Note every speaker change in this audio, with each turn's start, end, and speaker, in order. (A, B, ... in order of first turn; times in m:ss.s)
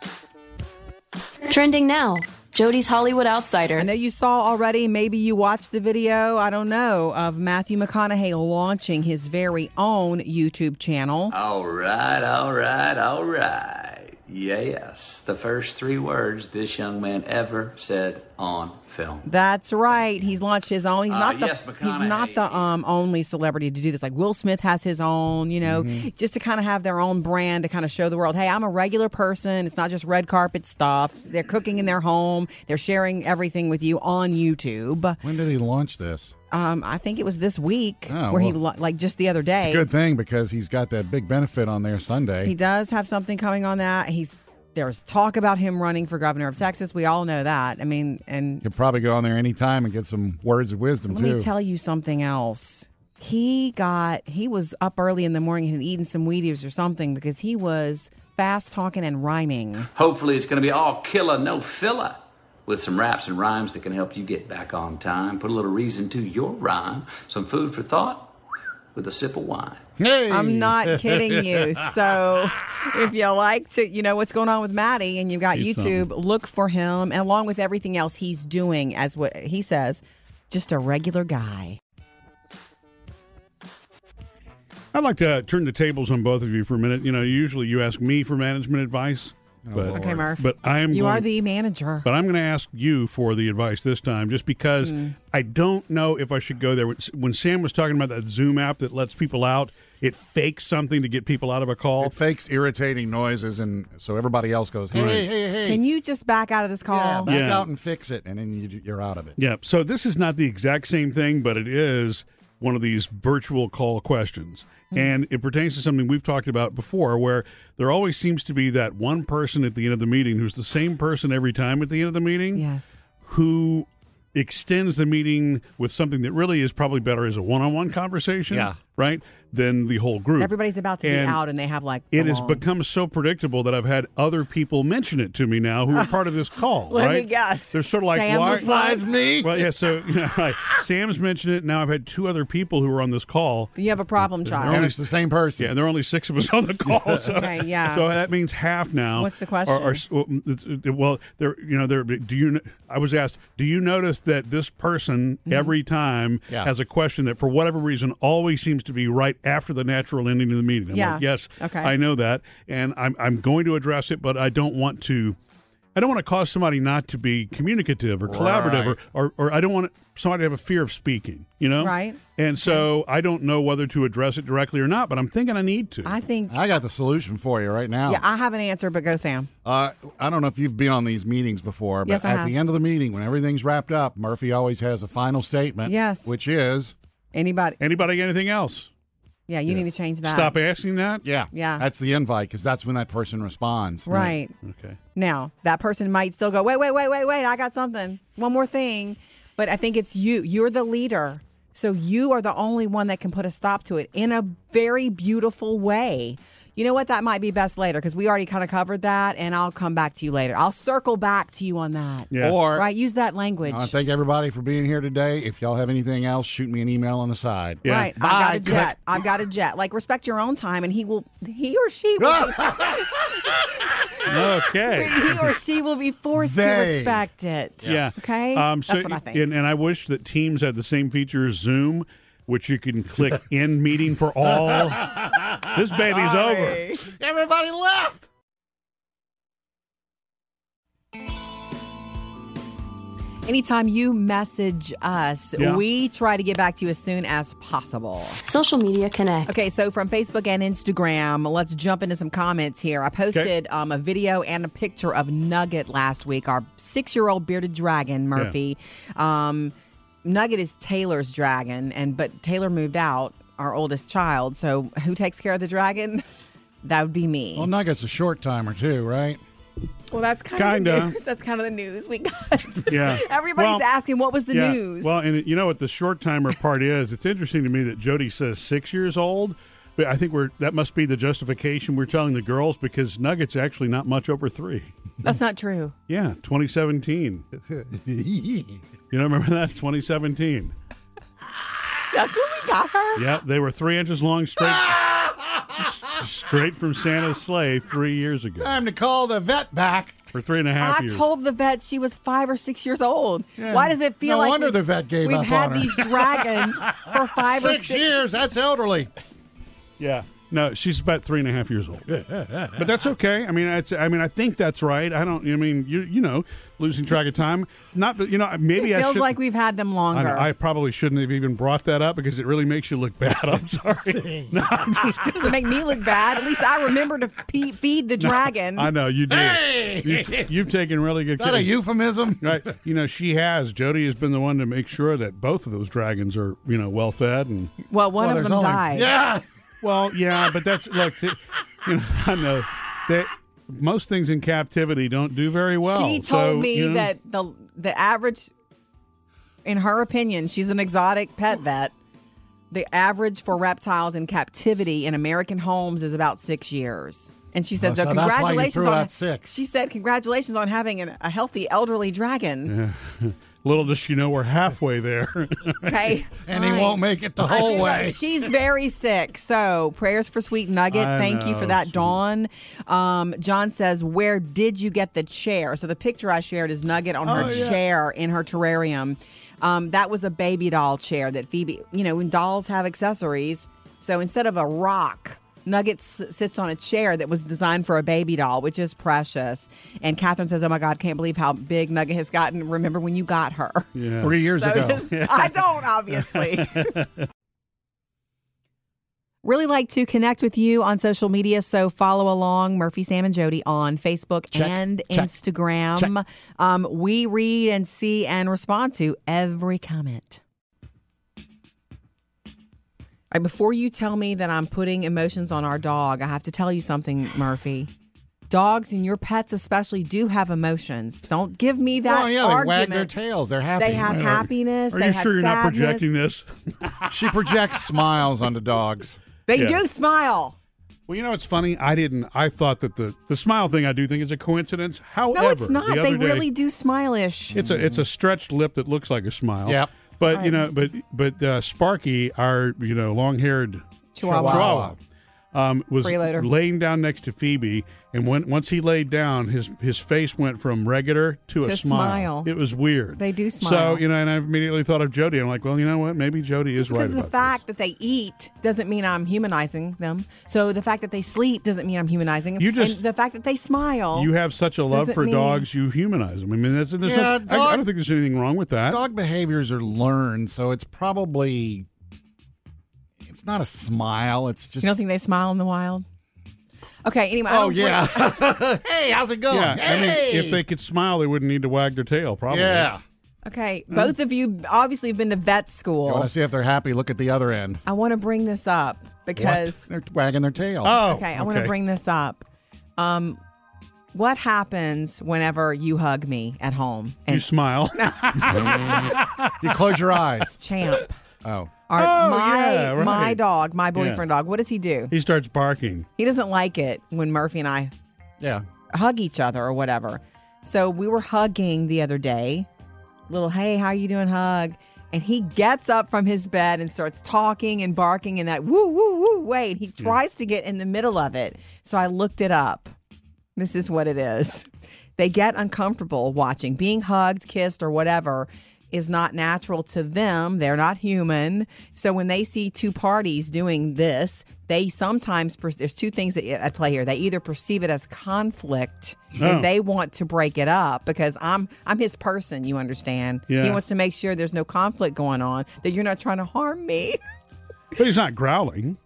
0:01.5-0:03.9 A
0:03.8-0:11.3 B
0:11.3-0:19.3 C
0:19.3-0:35.2 B
0:21.1-0:22.7 C
0:25.6-0:26.1 D
0:35.2-0:36.3 D
0:36.5-0:39.8 B
0:38.1-0:38.6 D
0:39.6-0:42.5 D
0:42.4-0:48.6 B
0:48.6-0:51.5 D
0:51.1-0:59.9 B
1:00.0-1:08.4 C
1:09.0-1:09.8 C
1:10.0-1:12.0 D
1:10.3-1:21.8 B
1:15.5-1:16.1 E
1:24.9-1:31.3 E
1:29.6-1:30.3 D
1:29.9-1:32.1 B
1:32.0-1:42.2 E
1:34.8-1:35.2 B
1:42.0-1:45.8 D
1:44.9-1:45.3 E
1:45.6-1:47.3 B
1:46.9-1:49.4 D
1:47.3-1:47.7 E
1:49.4-2:02.6 E
2:02.6-2:03.0 B
2:03.2-2:11.4 E
2:08.5-2:08.8 D
2:10.4-2:12.6 B
2:12.1-2:18.7 E
2:16.9-2:19.0 B
2:18.4-2:19.7 D
2:19.4-2:23.7 E
2:23.8-2:24.9 B
2:24.4-2:25.0 E
2:24.7-2:25.7 D
2:25.6-2:45.4 E
2:27.3-2:28.1 B
2:29.2-2:30.0 B
2:35.5-2:35.7 B
2:40.9-2:41.9 B
2:46.0-2:56.2 E
2:48.3-2:49.0 D
2:51.8-2:52.8 B
2:56.1-2:56.6 B
2:56.5-2:58.2 D
2:58.1-2:59.5 B
2:59.6-3:07.0 D
3:02.1-3:02.5 B
3:05.9-3:06.3 B
3:07.3-3:07.8 B
3:07.8-3:08.9 E
3:09.5-3:10.6 B
3:09.7-3:11.2 E
3:11.2-3:14.3 D
3:11.5-3:11.8 B
3:14.1-3:14.5 B
3:14.1-3:15.0 E
3:15.2-3:33.9 B
3:32.3-3:32.6 E
3:32.4-3:32.9 D
3:33.7-3:39.2 D
3:37.8-3:38.1 E
3:37.8-3:49.4 B
3:42.2-3:43.7 D
3:44.2-3:45.6 E
3:46.4-3:47.3 D
3:47.8-3:56.9 E
3:54.5-3:55.8 D
3:56.1-3:57.1 B
3:57.0-3:58.3 D
4:03.5-4:08.4 B
4:05.6-4:05.8 E
4:08.4-4:09.5 A
4:09.5-4:19.7 B
4:20.2-4:26.2 B
4:26.8-4:27.7 B
4:27.6-4:29.4 D
4:30.1-4:35.2 B
4:30.6-4:31.2 E
4:32.9-4:33.8 E
4:34.5-4:44.9 E
4:45.2-4:45.9 B
4:46.1-4:47.4 E
4:47.7-4:48.8 D
4:49.1-4:50.8 E
4:52.1-4:53.2 B
4:53.2-4:54.9 E
4:54.6-4:56.2 D
4:55.8-4:58.8 E
4:58.6-5:00.2 D
5:00.3-5:01.2 E
5:00.8-5:08.2 B
5:03.6-5:06.3 D
5:06.9-5:09.1 D
5:10.0-5:19.3 E
5:12.1-5:12.8 D
5:18.8-5:20.5 B
5:20.1-5:25.5 E
5:25.3-5:28.9 B
5:28.2-5:31.7 E
5:29.3-5:30.6 D
5:31.4-5:32.6 D
5:32.4-5:37.7 E
5:37.9-5:39.1 B
5:38.2-5:39.4 D
5:39.8-5:47.1 E
5:45.8-5:48.5 B
5:49.6-5:51.9 B
5:52.7-6:02.7 B
5:57.8-5:59.6 D
6:02.7-6:06.2 E
6:05.8-6:37.0 B
6:06.4-6:08.5 D
6:10.9-6:12.2 E
6:17.3-6:17.8 E
6:17.4-6:17.7 D
6:34.0-6:34.4 E
6:34.2-6:35.1 D
6:35.1-6:35.6 E
6:36.3-6:37.3 E
6:39.4-6:50.4 B
6:44.5-6:45.3 D
6:53.3-6:57.9 B
6:58.5-7:03.1 B
7:02.0-7:04.2 D
7:03.8-7:06.1 B
7:04.0-7:07.2 E
7:07.1-7:09.2 D
7:09.5-7:10.6 B
7:09.6-7:09.8 E
7:11.1-7:16.5 E
7:15.3-7:17.8 B
7:17.5-7:25.0 E
7:17.6-7:18.0 D
7:20.3-7:20.7 B
7:24.2-7:24.8 B
7:24.3-7:25.0 D
7:25.5-7:37.6 E
7:26.0-7:26.5 B
7:31.6-7:32.5 B
7:33.2-7:34.0 B
7:36.8-7:44.3 B
7:42.6-7:43.0 E
7:44.2-7:49.0 E
7:44.9-7:45.6 B
7:47.0-7:47.9 D
7:48.9-7:51.9 D
7:53.2-7:55.0 D
7:54.8-7:56.0 B
7:57.0-7:58.6 B
7:57.5-8:00.6 D
7:59.5-8:02.9 E
8:02.5-8:03.0 D
8:03.4-8:06.3 B
8:06.0-8:07.8 D
8:07.9-8:09.9 B
8:09.4-8:11.0 D
8:10.8-8:11.7 E
8:11.0-8:12.4 B
8:13.0-8:13.4 B
8:14.1-8:19.0 B
8:17.3-8:19.6 E
8:18.6-8:19.0 D
8:19.6-8:20.6 D
8:20.6-8:21.2 B
8:21.4-8:21.7 D
8:21.9-8:25.1 B
8:22.0-8:23.4 E
8:24.0-8:24.2 E
8:25.1-8:26.1 E
8:26.2-8:27.9 B
8:28.4-8:28.7 D
8:28.9-8:32.7 B
8:33.3-8:42.9 B
8:43.6-9:07.2 B
8:59.4-8:59.7 E
9:03.5-9:03.8 E
9:07.9-9:09.0 E